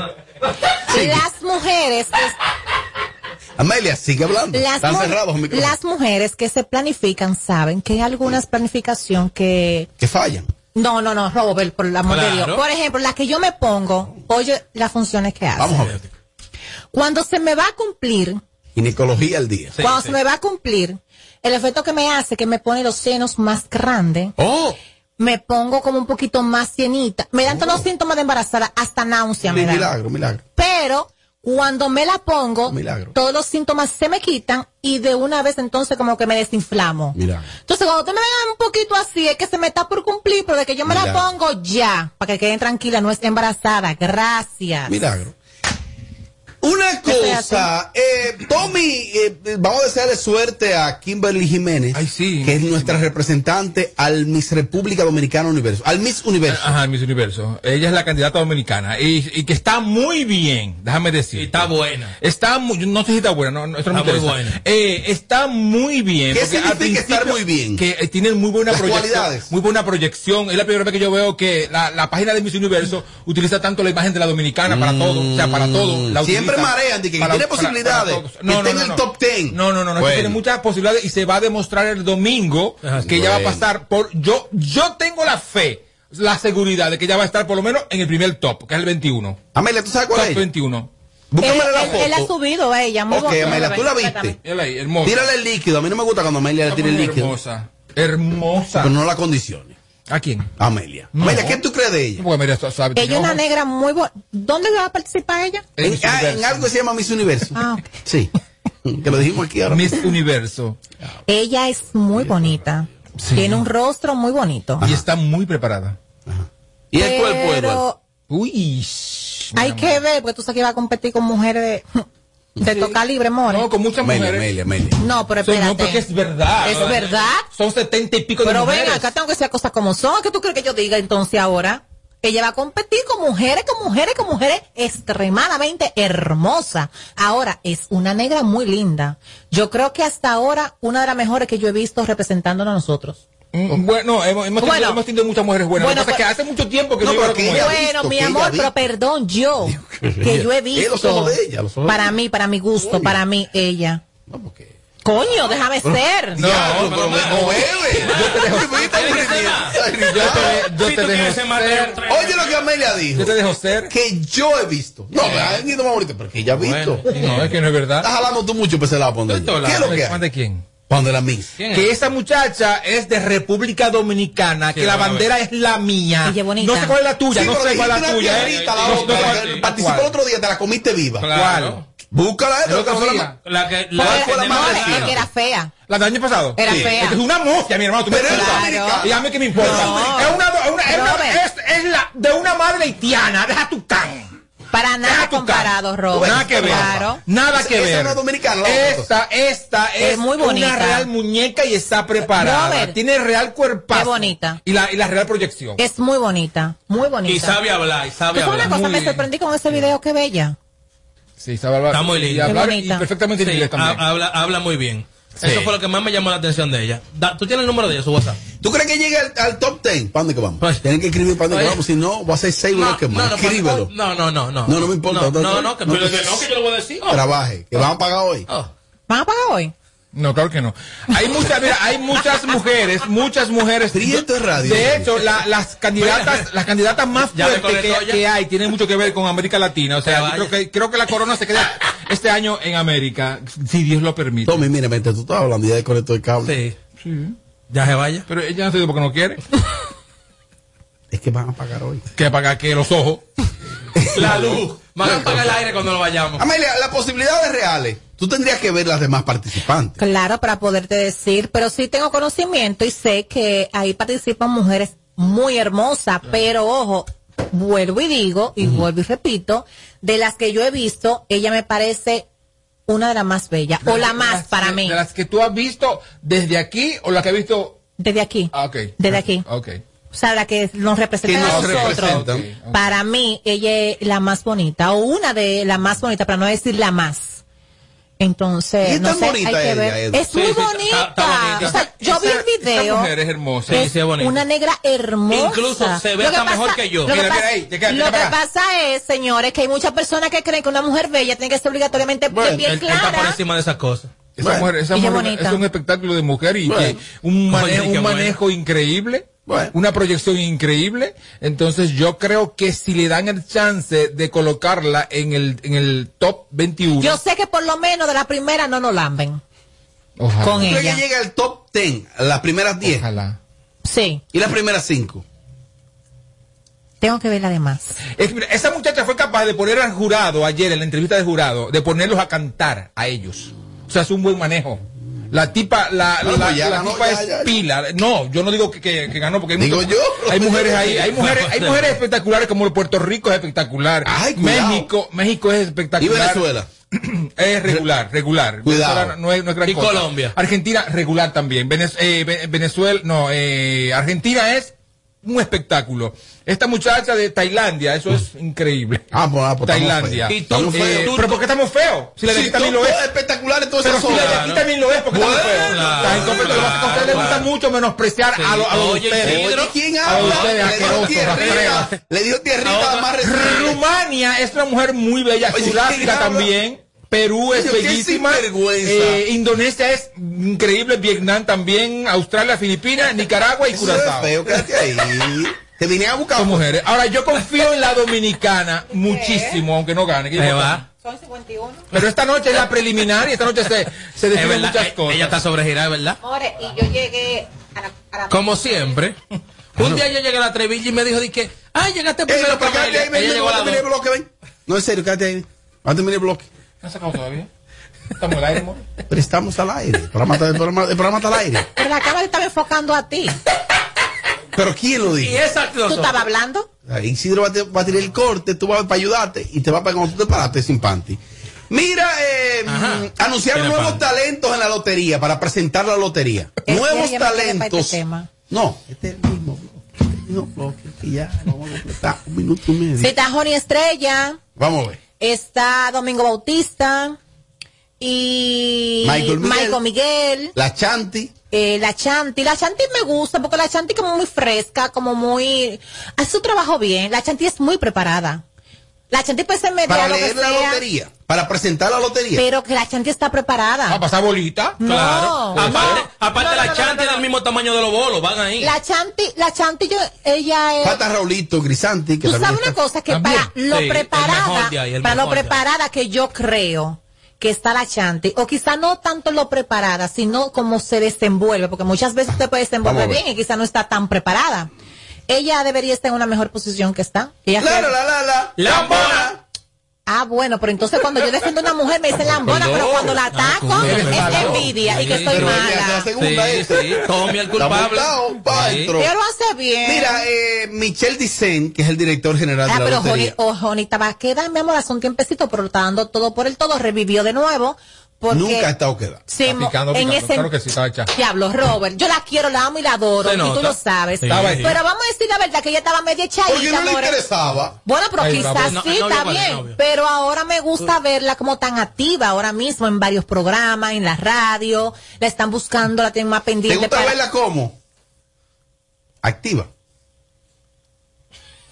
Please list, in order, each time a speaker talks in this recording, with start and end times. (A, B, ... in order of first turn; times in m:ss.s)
0:00.9-0:02.4 A
0:00.9-0:01.2 B
0:03.6-0:05.7 B
0:04.5-0:09.9 A
0:10.0-0:10.5 B
0:10.7-0:15.9 A
0:12.1-0:12.6 C
0:15.6-0:16.0 B
0:16.9-0:18.4 A
0:18.8-0:19.8 B
0:19.8-0:20.2 C
0:19.8-0:24.3 A
0:24.4-0:24.8 B
0:25.2-0:29.9 A
0:27.5-0:27.8 B
0:29.5-0:30.4 B
0:30.6-0:45.0 A
0:32.7-0:33.1 B
0:37.2-0:37.5 B
0:40.9-0:41.2 B
0:44.9-0:45.4 B
0:46.6-0:56.8 B
0:47.1-0:47.7 A
0:51.9-0:53.0 D
0:56.5-1:01.7 D
1:01.4-1:02.2 C
1:02.2-1:29.4 D
1:03.9-1:04.6 C
1:06.3-1:07.8 B
1:08.7-1:09.5 B
1:14.7-1:20.4 B
1:23.0-1:23.7 B
1:29.5-1:30.4 B
1:30.1-1:30.9 D
1:31.3-1:32.3 B
1:31.4-1:34.4 A
1:33.1-1:34.4 B
1:34.4-1:35.3 D
1:35.0-1:37.3 B
1:36.7-1:38.9 D
1:38.8-1:39.8 B
1:40.1-1:40.5 D
1:40.6-1:42.2 B
1:41.1-1:41.6 D
1:42.2-1:43.4 D
1:43.0-1:45.7 A
1:45.8-1:46.7 D
1:45.8-1:48.3 B
1:47.6-1:47.9 A
1:48.8-1:50.1 B
1:49.7-1:50.8 D
1:51.3-1:54.8 A
1:52.2-1:52.6 B
1:53.2-1:53.6 D
1:54.8-1:56.0 D
1:56.3-1:57.8 B
1:57.0-1:58.0 A
1:58.3-2:00.0 D
1:59.6-2:02.0 A
2:02.6-2:03.7 A
2:03.5-2:04.5 D
2:04.0-2:05.0 B
2:05.0-2:06.0 A
2:05.4-2:09.1 D
2:06.6-2:07.4 A
2:08.4-2:23.2 A
2:23.5-2:27.8 D
2:24.6-2:25.0 A
2:25.8-2:26.2 A
2:27.0-2:28.7 B
2:27.5-2:34.0 A
2:29.7-2:32.1 B
2:32.8-2:33.2 B
2:34.3-2:34.7 B
2:35.0-2:36.4 A
2:35.8-2:40.6 B
2:36.4-2:39.3 D
2:36.5-2:42.7 C
2:40.0-2:42.0 D
2:42.1-2:43.4 B
2:43.2-2:43.9 D
2:43.9-2:47.0 B
2:45.2-2:45.6 C
2:46.6-2:47.6 C
2:47.1-2:48.1 D
2:48.0-2:50.2 B
2:49.3-2:50.0 C
2:49.8-2:50.6 D
2:50.9-2:51.5 B
2:51.6-2:51.9 C
2:51.7-3:00.1 D
2:54.7-2:55.3 C
2:56.2-2:57.0 A
2:57.3-3:01.3 B
2:58.2-2:59.6 C
3:01.2-3:01.8 C
3:01.3-3:01.8 D
3:02.1-3:03.3 B
3:02.7-3:03.4 D
3:03.4-3:05.2 C
3:04.0-3:05.2 B
3:04.0-3:05.7 A
3:05.9-3:14.3 D
3:06.6-3:07.2 A
3:06.7-3:06.9 B
3:08.1-3:10.1 B
3:08.3-3:11.4 A
3:14.7-3:17.2 A
3:15.0-3:25.8 D
3:16.1-3:19.1 B
3:20.0-3:21.1 A
3:22.3-3:23.0 A
3:23.9-3:24.6 A
3:25.8-3:27.6 A
3:27.2-3:28.8 C
3:28.3-3:30.6 A
3:28.6-3:29.2 D
3:31.4-3:34.0 D
3:31.9-3:32.6 C
3:32.5-3:33.0 A
3:33.4-3:38.4 C
3:38.6-3:43.9 B
3:41.5-3:41.8 C
3:42.7-3:47.2 C
3:44.7-3:46.5 B
3:47.1-3:48.5 B
3:49.1-3:49.7 A
3:50.1-4:04.7 D
3:53.9-3:55.1 B
3:56.0-3:56.5 C
3:57.2-3:58.2 C
4:00.0-4:00.5 C
4:04.5-4:06.6 B
4:06.4-4:06.8 C
4:07.0-4:07.4 D
4:07.7-4:08.3 C
4:08.3-4:09.4 D
4:11.1-4:12.1 B
4:12.2-4:13.2 D
4:14.0-4:15.5 B
4:14.1-4:16.4 C
4:16.4-4:20.0 B
4:20.0-4:32.2 A
4:32.9-4:35.0 A
4:33.8-4:37.8 D
4:38.0-4:39.4 A
4:38.5-4:39.8 D
4:40.1-4:47.4 A
4:41.2-4:42.5 B
4:41.4-4:42.8 D
4:48.2-4:53.1 A
4:48.8-4:50.2 B
4:50.3-4:51.8 C
4:51.6-4:53.9 D
4:53.7-4:54.4 C
4:53.7-5:03.4 A
4:55.3-4:57.1 C
4:57.1-4:58.4 D
5:02.3-5:02.7 B
5:02.6-5:04.1 C
5:04.4-5:04.7 B
5:04.4-5:17.2 D
5:04.9-5:05.6 A
5:06.7-5:07.0 B
5:07.5-5:08.4 C
5:09.5-5:09.7 B
5:17.0-5:19.4 A
5:20.2-5:20.8 D
5:20.4-5:21.0 A
5:20.6-5:23.1 B
5:22.8-5:23.4 D
5:23.8-5:24.2 A
5:24.3-5:25.2 B
5:27.0-5:28.0 A
5:28.2-5:34.8 D
5:35.3-5:59.1 D
5:36.2-5:37.5 B
5:39.6-5:41.1 B
5:40.8-5:42.0 C
5:44.1-5:44.9 B
5:46.0-5:46.7 B
5:48.6-5:49.2 B
5:49.6-5:50.4 C
5:59.1-6:01.2 B
5:59.7-6:03.0 D
6:00.3-6:01.4 C
6:02.2-6:04.5 B
6:03.8-6:11.9 D
6:04.0-6:04.7 C
6:05.1-6:07.3 B
6:05.3-6:07.5 C
6:08.4-6:11.9 C
6:09.2-6:13.8 B
6:12.6-6:13.1 C
6:13.2-6:24.4 D
6:15.5-6:16.5 B
6:17.5-6:19.2 B
6:23.7-6:26.7 B
6:26.4-6:30.8 D
6:28.9-6:29.6 A
6:30.4-6:30.8 C
6:31.0-6:31.9 A
6:31.9-6:35.4 D
6:34.3-6:36.2 C
6:36.2-6:39.0 A
6:38.3-6:39.2 C
6:39.8-6:43.8 C
6:39.8-6:40.0 B
6:42.3-6:46.5 B
6:46.8-6:47.5 D
6:48.2-6:48.8 D
6:49.1-6:51.7 B
6:51.8-6:53.4 A
6:54.5-6:55.4 B
6:55.2-6:56.2 C
6:55.9-6:56.7 A
6:56.9-7:01.2 B
7:01.7-7:08.0 B
7:02.7-7:04.0 C
7:06.7-7:08.3 A
7:08.5-7:13.1 B
7:13.0-7:14.4 A
7:14.6-7:15.0 B
7:15.2-7:17.2 A
7:18.0-7:20.5 A
7:19.0-7:19.8 B
7:20.6-7:21.3 B
7:21.5-7:28.4 A
7:29.1-7:30.8 A
7:29.9-7:32.4 B
7:32.4-7:34.0 A
7:33.9-7:34.8 D
7:34.8-7:37.3 A
7:34.8-7:38.7 C
7:35.6-7:36.0 D
7:38.6-7:41.0 A
7:40.8-7:42.8 B
7:42.2-7:54.7 A
7:43.1-7:43.5 D
7:43.7-7:45.6 C
7:52.8-7:53.2 B
7:55.3-7:57.9 A
7:57.6-7:59.4 B
7:58.6-7:59.3 C
8:00.1-8:06.1 A
8:02.2-8:03.2 B
8:03.3-8:08.9 C
8:03.8-8:09.1 B
8:09.0-8:10.2 A
8:09.8-8:13.4 B
8:12.7-8:18.7 A
8:18.3-8:19.2 B
8:19.3-8:20.5 A
8:19.5-8:21.1 D
8:21.1-8:27.2 A
8:23.2-8:24.8 C
8:24.3-8:24.7 D
8:26.5-8:27.8 B
8:27.8-8:37.2 A
8:28.2-8:28.8 D
8:28.6-8:29.8 C
8:36.7-8:37.8 B
8:39.2-8:39.7 B